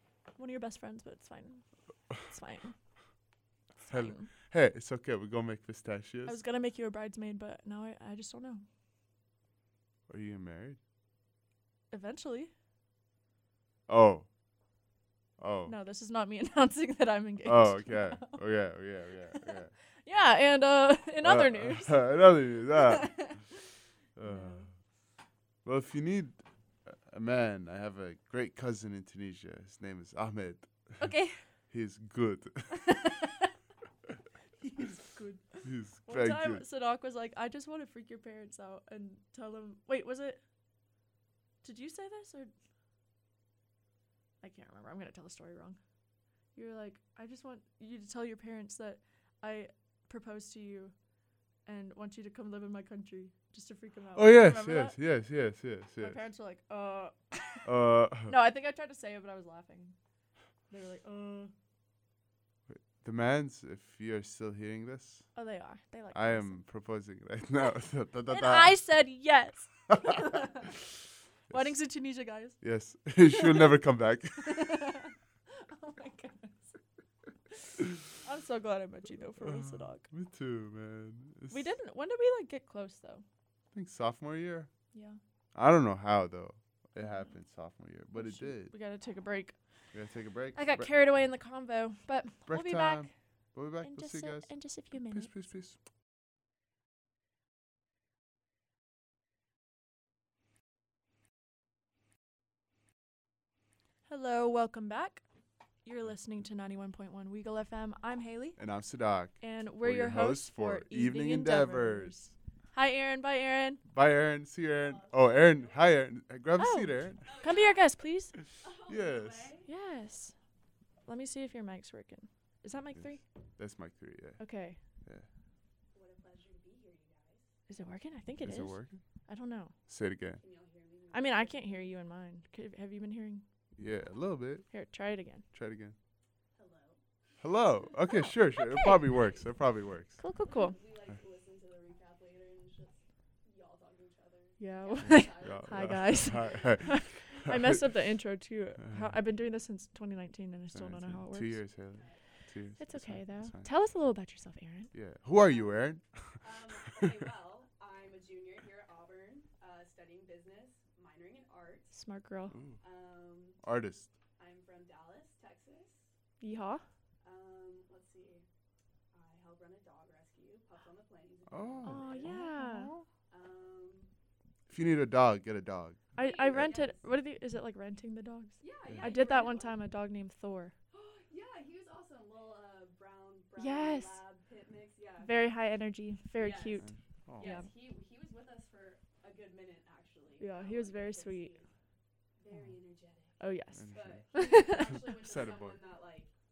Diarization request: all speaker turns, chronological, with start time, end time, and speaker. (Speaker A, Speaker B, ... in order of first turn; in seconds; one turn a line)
Speaker A: 0.4-2.8
Speaker A: 3.8-4.3
Speaker B: 3.9-6.4
Speaker A: 6.3-8.6
Speaker B: 10.1-10.8
Speaker A: 11.9-12.5
Speaker B: 13.9-14.3
Speaker B: 15.4-15.7
Speaker A: 15.7-18.4
Speaker B: 17.4-19.7
Speaker A: 20.1-22.2
Speaker B: 21.2-23.4
Speaker A: 22.7-23.5
Speaker B: 24.2-24.7
Speaker A: 24.2-24.7
Speaker B: 25.6-31.1
Speaker A: 31.0-31.4
Speaker B: 31.7-32.8
Speaker A: 32.7-33.5
Speaker A: 34.6-40.4
Speaker B: 35.6-36.6
Speaker A: 41.6-42.5
Speaker A: 44.4-45.8
Speaker A: 46.5-50.9
Speaker A: 51.7-55.0
Speaker B: 54.2-56.2
Speaker A: 56.0-57.7
Speaker B: 57.6-58.4
Speaker A: 58.3-60.0
Speaker A: 60.7-61.5
Speaker B: 62.7-65.3
Speaker A: 65.3-66.6
Speaker B: 66.1-68.8
Speaker A: 68.3-70.8
Speaker B: 69.9-70.5
Speaker B: 71.5-71.8
Speaker A: 71.5-72.6
Speaker B: 72.6-74.8
Speaker A: 73.3-73.7
Speaker A: 74.4-76.8
Speaker A: 77.6-80.1
Speaker B: 79.4-81.7
Speaker A: 81.5-83.2
Speaker B: 83.7-84.7
Speaker A: 84.9-85.2
Speaker B: 85.5-88.7
Speaker A: 88.1-89.6
Speaker B: 89.9-90.9
Speaker A: 90.5-93.1
Speaker B: 92.5-95.8
Speaker A: 93.8-95.3
Speaker A: 104.1-105.2
Speaker A: 105.8-108.6
Speaker B: 108.6-112.3
Speaker A: 109.4-113.8
Speaker B: 113.9-117.5
Speaker C: 114.7-115.9
Speaker A: 116.6-118.3
Speaker C: 117.2-117.9
Speaker C: 118.6-119.7
Speaker B: 118.9-119.5
Speaker A: 119.7-120.3
Speaker A: 121.1-123.2
Speaker B: 123.0-124.4
Speaker A: 124.4-124.8
Speaker C: 125.9-127.5
Speaker A: 127.7-129.7
Speaker B: 128.4-129.0
Speaker B: 129.9-130.4
Speaker C: 130.4-132.0
Speaker A: 131.1-133.4
Speaker B: 133.8-134.7
Speaker A: 134.7-135.4
Speaker B: 135.5-135.9
Speaker C: 136.6-137.0
Speaker B: 137.4-140.2
Speaker A: 138.6-139.0
Speaker A: 140.2-140.8
Speaker C: 140.4-146.4
Speaker A: 144.6-151.6
Speaker B: 145.0-147.9
Speaker B: 148.8-149.1
Speaker B: 150.7-153.7
Speaker C: 151.9-152.2
Speaker A: 152.8-154.9
Speaker B: 154.9-157.2
Speaker C: 155.3-155.9
Speaker C: 156.4-161.9
Speaker A: 161.9-162.6
Speaker B: 162.5-162.8
Speaker C: 162.8-163.6
Speaker B: 163.6-164.1
Speaker C: 164.4-166.1
Speaker A: 166.4-166.8
Speaker C: 167.2-168.4
Speaker C: 169.1-172.6
Speaker B: 171.5-173.1
Speaker A: 171.8-172.9
Speaker C: 173.3-174.1
Speaker B: 174.7-176.7
Speaker A: 176.1-180.7
Speaker C: 176.2-177.1
Speaker C: 178.6-179.8
Speaker B: 178.8-179.2
Speaker C: 180.9-185.6
Speaker A: 183.6-184.2
Speaker A: 185.2-186.9
Speaker C: 186.4-191.7
Speaker B: 186.8-187.6
Speaker A: 187.4-187.7
Speaker A: 190.4-191.6
Speaker C: 192.4-196.3
Speaker A: 193.4-194.9
Speaker B: 193.7-194.2
Speaker B: 194.8-195.8